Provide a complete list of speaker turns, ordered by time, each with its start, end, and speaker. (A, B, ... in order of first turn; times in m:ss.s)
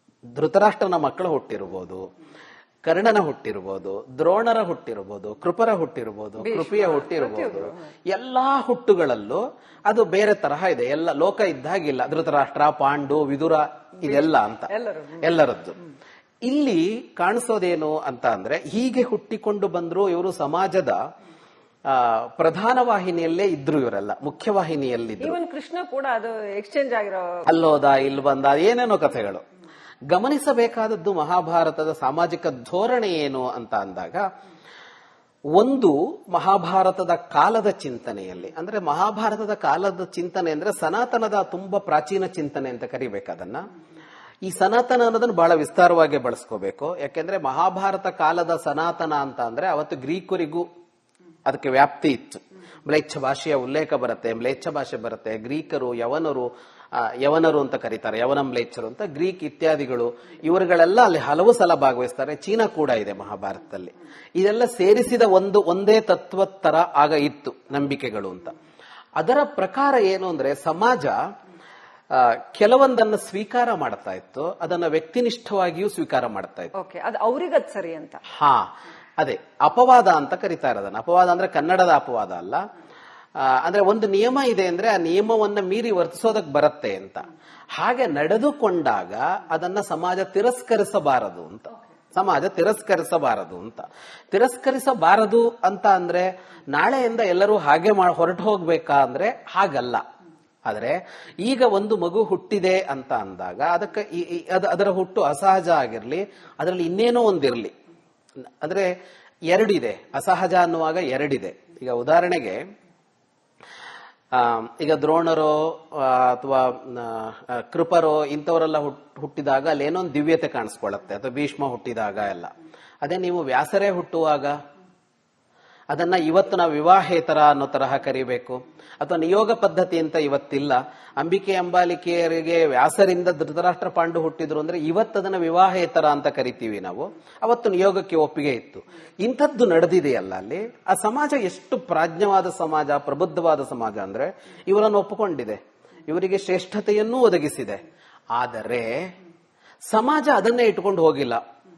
0:00.3-0:02.0 A
0:02.8-0:15.8 A
0:06.4-0:07.9 B
0:14.0-0:15.2 B
0:16.4-0:21.0 A
0:21.9-0:25.4 A
0:25.2-0:27.4 B
0:27.5-0:29.4 A
0:30.1-0:34.2 A
0:35.6-0:43.6 A
0:44.4-0:50.6 A
0:51.4-1:08.5 A
1:09.2-1:11.2 A
1:12.1-1:16.7 A
1:16.7-1:18.2 B
1:18.3-1:18.7 A
1:19.2-1:22.6 A
1:23.4-1:40.0 A
1:40.6-1:47.7 A
1:48.6-1:48.9 A
1:49.5-1:52.6 A
1:54.3-2:02.5 A
2:03.0-2:04.6 A
2:05.9-2:27.8 A
2:28.3-2:29.1 A
2:29.9-2:31.4 A